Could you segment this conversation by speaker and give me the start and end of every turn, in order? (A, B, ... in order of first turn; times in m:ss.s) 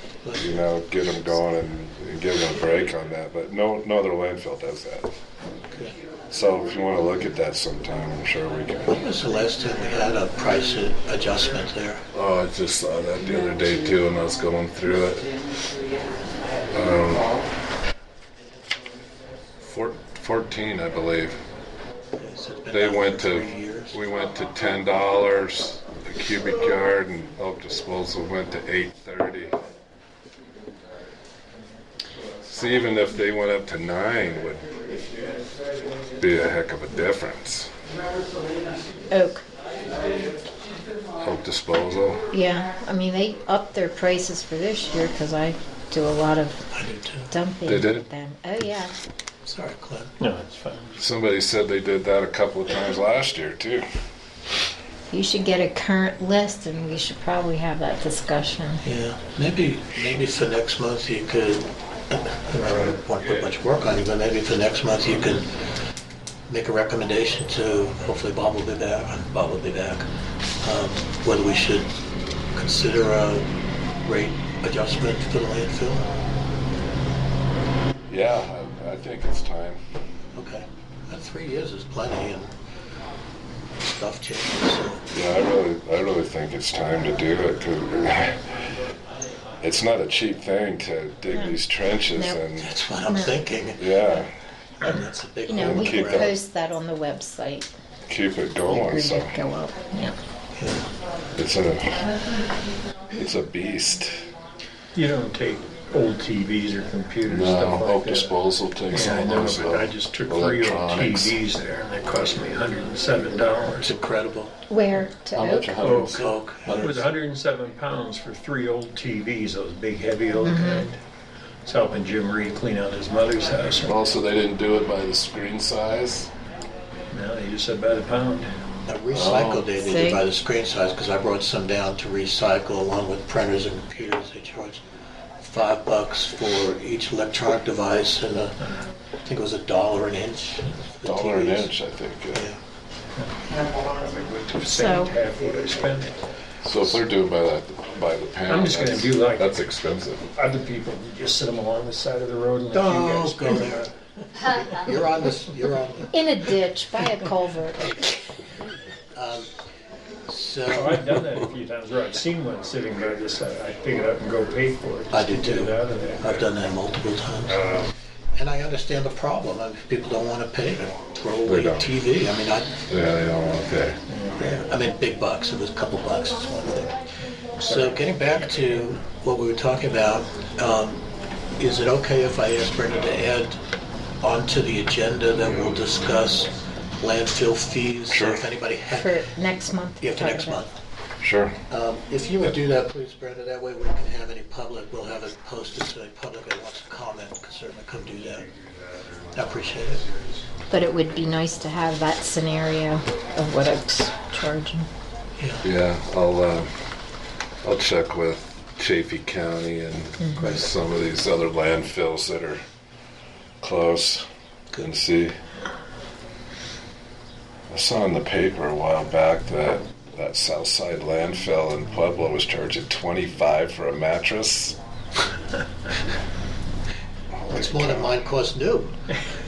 0:00.2-0:00.7 A
0:00.4-0:05.1 B
0:06.3-0:09.0 B
0:08.9-0:12.0 A
0:12.1-0:15.3 B
0:16.7-0:17.4 B
0:19.6-0:21.4 B
0:22.2-0:24.0 A
0:22.7-0:29.6 B
0:32.5-0:34.7 B
0:36.2-0:37.7 B
0:39.1-0:39.4 C
0:41.2-0:42.3 B
0:42.3-0:46.7 C
0:46.7-0:47.3 A
0:47.3-0:49.0 C
0:47.7-0:48.1 B
0:49.4-0:50.1 A
0:50.2-0:51.0 D
0:51.0-0:53.8 B
0:55.1-0:58.8 C
0:58.8-1:05.6 A
1:06.5-1:10.1 A
1:10.6-1:11.9 A
1:12.6-1:13.5 A
1:14.0-1:16.0 A
1:18.1-1:19.8 B
1:20.4-1:22.5 A
1:23.8-1:25.0 A
1:25.1-1:28.4 B
1:29.6-1:32.7 B
1:32.2-1:32.4 C
1:32.6-1:33.8 A
1:33.1-1:33.4 C
1:33.8-1:34.3 B
1:34.8-1:36.4 A
1:35.5-1:37.7 C
1:35.5-1:36.3 B
1:38.1-1:39.4 B
1:38.6-1:40.2 C
1:40.6-1:40.9 A
1:41.4-1:42.1 B
1:43.1-1:44.3 B
1:45.0-1:48.4 D
1:47.3-1:51.4 B
1:48.9-1:53.9 D
1:53.8-1:54.6 A
1:54.7-1:55.8 C
1:55.3-1:57.1 B
1:55.8-2:01.0 D
1:56.1-1:56.8 A
2:00.4-2:00.9 C
2:01.6-2:04.0 D
2:03.8-2:06.3 B
2:07.1-2:08.5 D
2:08.9-2:14.8 A
2:09.1-2:09.6 B
2:09.8-2:10.2 C
2:15.4-2:18.6 A
2:19.2-2:21.7 A
2:21.0-2:22.5 B
2:23.2-2:26.2 D
2:24.7-2:25.1 C
2:26.6-2:30.3 B
2:28.5-2:29.5 D
2:30.3-2:33.9 D
2:32.7-2:36.2 A
2:36.1-2:37.9 C
2:37.8-2:38.2 A
2:39.2-2:39.5 A
2:40.3-2:41.0 A
2:40.7-2:46.4 D
2:45.1-2:47.6 A
2:48.4-2:52.7 A
2:51.4-2:51.9 B
2:52.9-2:54.0 B
2:54.1-2:54.5 D
2:54.4-2:57.0 A
2:57.6-2:58.0 D
2:57.6-3:01.0 A
3:01.6-3:03.6 A
3:04.2-3:09.2 A
3:08.1-3:08.4 B
3:09.0-3:10.6 C
3:10.0-3:10.7 A
3:11.2-3:11.6 B
3:11.7-3:18.5 A
3:19.3-3:20.0 A
3:20.7-3:24.9 C
3:25.4-3:25.6 A
3:25.6-3:26.7 B
3:27.6-3:32.6 B
3:33.6-3:35.4 B
3:37.7-3:44.8 B
3:47.3-3:48.1 B
3:47.5-3:48.9 A